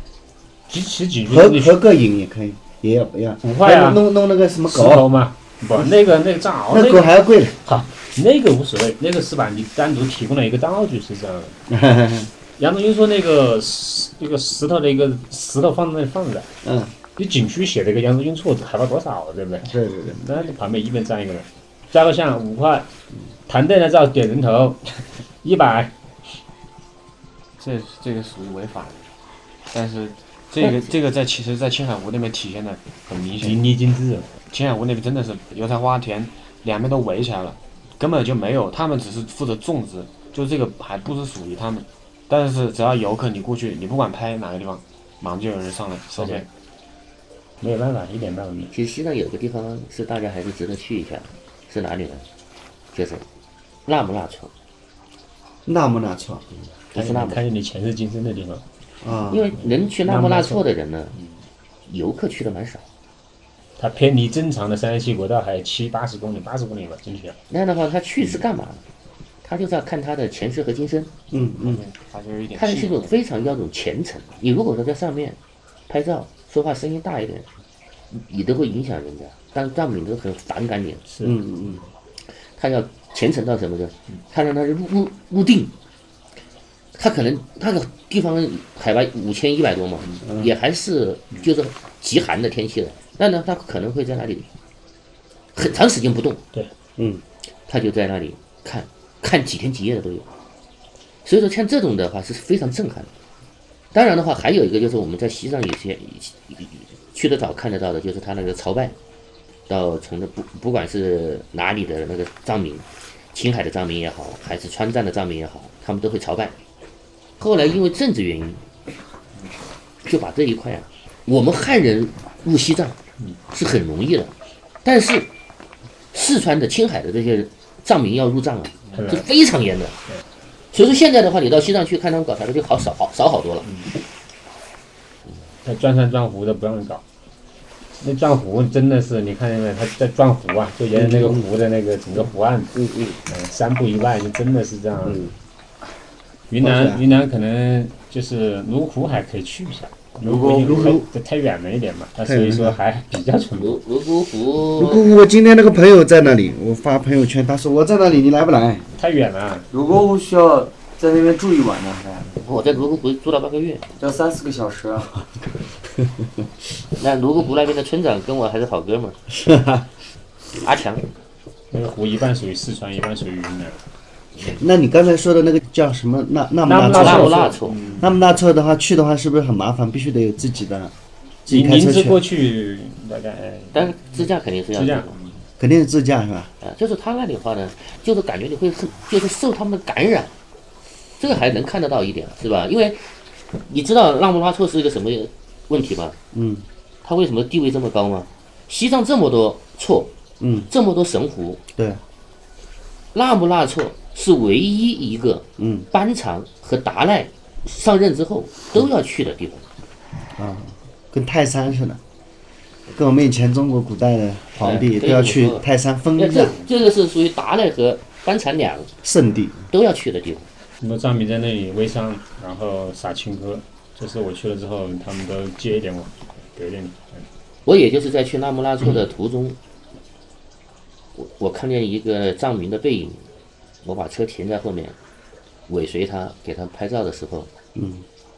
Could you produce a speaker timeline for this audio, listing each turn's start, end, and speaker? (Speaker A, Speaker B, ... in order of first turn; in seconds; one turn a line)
Speaker A: 0.7-1.8
Speaker B: 1.3-5.1
Speaker A: 3.4-4.0
Speaker A: 4.7-11.6
Speaker B: 6.7-7.6
Speaker B: 11.7-12.3
Speaker A: 12.6-16.5
Speaker B: 16.6-16.9
Speaker A: 17.2-22.9
Speaker B: 19.7-20.2
Speaker A: 23.5-25.9
Speaker C: 27.6-29.1
Speaker C: 29.7-33.6
Speaker A: 33.4-34.3
Speaker C: 34.5-46.5
Speaker A: 46.2-46.5
Speaker A: 47.6-48.7
Speaker D: 48.7-52.2
Speaker D: 52.9-53.2
Speaker D: 53.9-54.5
Speaker B: 55.7-56.5
Speaker D: 56.9-57.4
Speaker A: 56.9-58.6
Speaker B: 59.0-59.5
Speaker D: 59.3-61.1
Speaker A: 59.6-60.6
Speaker D: 61.9-62.9
Speaker A: 63.8-67.4
Speaker D: 67.5-68.8
Speaker D: 69.4-71.1
Speaker B: 71.3-71.8
Speaker C: 71.5-73.2
Speaker D: 72.5-75.4
Speaker D: 75.9-77.5
Speaker D: 78.1-81.0
Speaker A: 81.1-81.4
Speaker B: 81.2-81.8
Speaker D: 82.6-85.7
Speaker D: 87.0-94.5
Speaker B: 90.2-90.5
Speaker D: 95.5-96.4
Speaker B: 97.0-97.2
Speaker D: 97.7-100.3
Speaker D: 101.2-103.1
Speaker D: 103.9-109.0
Speaker D: 109.7-116.5
Speaker D: 117.4-118.6
Speaker D: 120.0-123.0
Speaker D: 123.5-124.3
Speaker D: 124.8-125.3
Speaker D: 126.1-130.0
Speaker A: 128.9-129.3
Speaker D: 130.7-133.7
Speaker A: 133.6-133.9
Speaker A: 135.6-137.0
Speaker A: 138.0-145.3
Speaker B: 140.9-141.5
Speaker B: 142.7-143.2
Speaker B: 145.0-145.3
Speaker A: 146.5-153.8
Speaker B: 146.6-147.0
Speaker B: 150.2-151.1
Speaker E: 150.2-151.0
Speaker B: 152.2-152.8
Speaker D: 153.6-155.1
Speaker B: 154.8-158.8
Speaker A: 159.0-159.7
Speaker E: 159.7-162.3
Speaker D: 162.4-163.9
Speaker E: 164.0-165.1
Speaker B: 165.2-166.5
Speaker D: 167.0-169.2
Speaker B: 169.3-169.9
Speaker D: 170.6-171.1
Speaker A: 171.7-173.8
Speaker B: 174.5-177.4
Speaker A: 176.7-178.1
Speaker D: 176.8-177.8
Speaker B: 178.0-180.9
Speaker B: 181.5-182.2
Speaker A: 181.5-185.3
Speaker D: 183.7-185.2
Speaker B: 185.6-186.5
Speaker D: 186.6-190.3
Speaker D: 191.2-193.1
Speaker D: 193.7-196.2
Speaker B: 196.3-196.7
Speaker D: 197.0-200.1
Speaker B: 200.4-200.7
Speaker D: 200.7-201.6
Speaker B: 201.8-202.0
Speaker D: 203.1-209.7
Speaker B: 205.6-205.9
Speaker B: 210.3-212.0
Speaker B: 212.9-216.6
Speaker D: 214.6-215.7
Speaker D: 216.2-218.9
Speaker B: 219.0-219.7
Speaker D: 219.7-220.5
Speaker A: 220.8-227.2
Speaker D: 227.7-229.6
Speaker D: 231.2-233.3
Speaker D: 233.8-235.0
Speaker D: 235.7-237.5
Speaker B: 237.8-238.1